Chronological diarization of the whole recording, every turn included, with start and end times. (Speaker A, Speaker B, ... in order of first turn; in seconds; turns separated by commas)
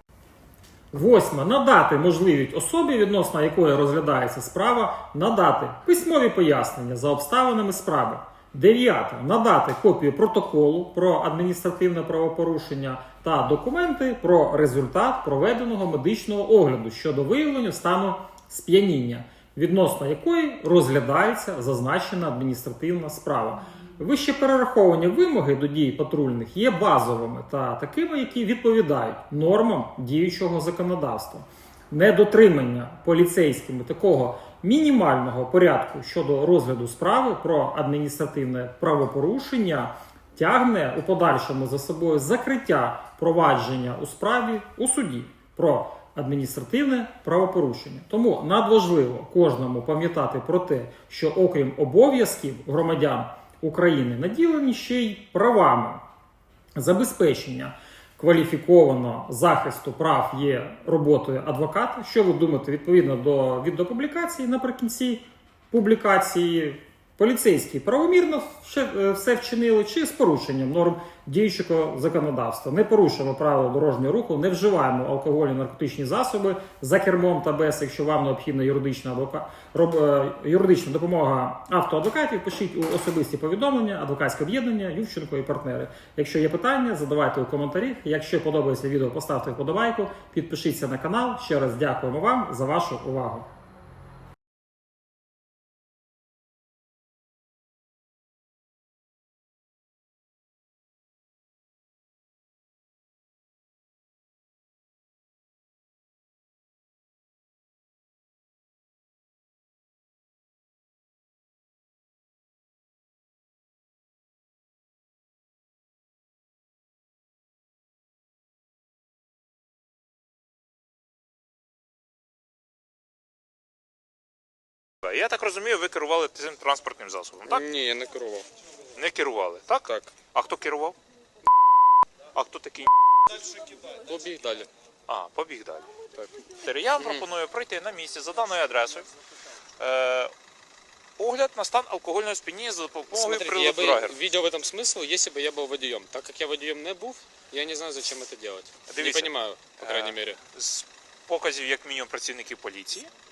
Speaker A: 0.9-56.0, Speaker A: 56.8-93.5, Speaker B: 125.0-127.6, Speaker C: 127.4-128.5, Speaker B: 128.9-130.9, Speaker C: 129.8-130.1, Speaker B: 132.3-132.9, Speaker C: 133.8-134.7, Speaker B: 135.1-135.9, Speaker B: 136.4-139.1, Speaker C: 137.0-137.2, Speaker B: 139.8-140.3, Speaker B: 141.2-144.2, Speaker C: 143.1-150.4, Speaker B: 148.9-153.1